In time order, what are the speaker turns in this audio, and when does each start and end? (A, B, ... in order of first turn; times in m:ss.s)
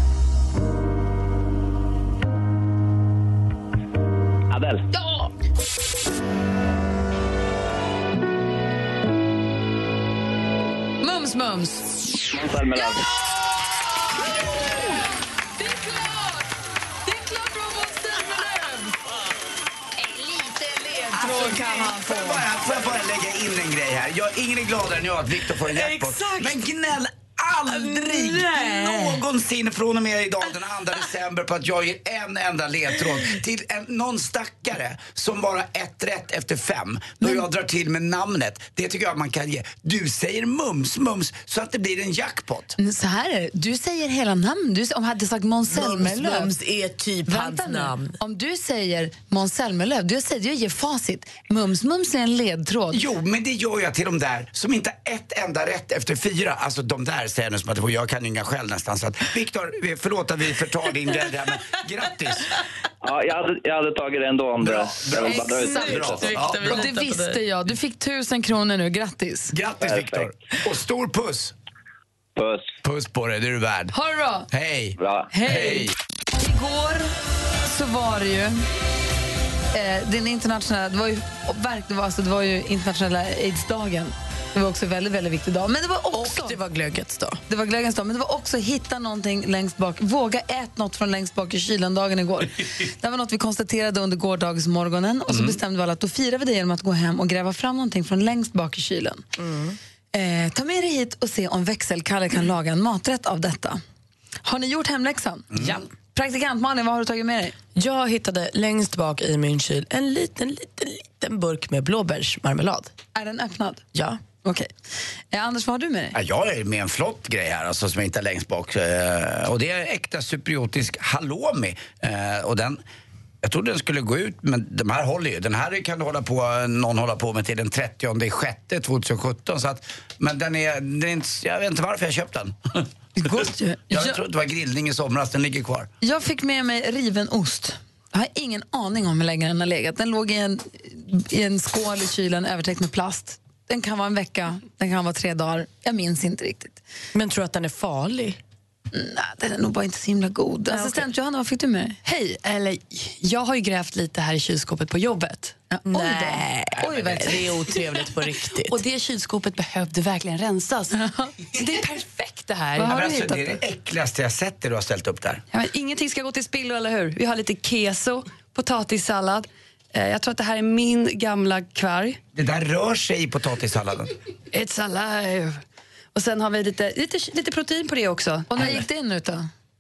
0:04.5-0:04.9 A
0:04.9-0:05.3 B
0:11.0-0:11.9 B
0:12.3-0:13.0 A
0:15.6-0:16.4 B
0:17.1-0:18.9 B
0:20.2-0:22.4 B
0:21.1-0:42.8 C
0:25.7-0:26.5 D
0:27.7-0:29.2 D
0:42.8-0:46.5 B
0:45.7-0:48.2 D
0:47.3-0:53.0 B
0:52.9-1:02.5 C
1:03.0-1:06.3 A
1:04.6-1:06.8 C
1:05.3-1:09.5 B
1:05.5-1:07.4 D
1:09.5-1:11.6 C
1:09.8-1:10.3 A
1:12.4-1:12.7 A
1:12.8-1:13.9 C
1:13.9-1:14.5 B
1:14.5-1:15.9 C
1:15.0-1:15.3 A
1:15.3-1:17.1 B
1:17.6-1:18.6 B
1:19.7-1:26.6 B
1:26.1-1:27.4 D
1:27.5-1:39.3 B
1:35.3-1:35.6 C
1:39.4-1:39.8 D
1:40.1-1:43.8 B
1:44.4-1:45.6 B
1:45.5-1:45.8 C
1:46.1-1:47.6 B
1:47.8-1:52.9 D
1:53.1-1:53.9 B
1:53.9-1:54.2 D
1:54.4-1:54.7 B
1:55.3-1:56.2 B
1:56.1-2:02.8 C
2:03.4-2:12.8 C
2:13.2-2:14.2 B
2:13.9-2:15.9 C
2:16.0-2:26.8 B
2:27.1-2:28.4 D
2:28.9-2:32.1 B
2:30.7-2:31.0 D
2:32.1-2:35.6 E
2:35.7-2:37.6 B
2:35.9-2:38.8 D
2:36.9-2:37.3 C
2:38.7-2:41.0 E
2:41.0-2:41.3 B
2:41.5-2:43.5 E
2:42.8-2:45.4 C
2:45.5-2:52.2 E
2:52.3-2:54.1 C
2:54.5-2:55.6 E
2:56.1-2:58.6 E
2:58.5-2:59.5 B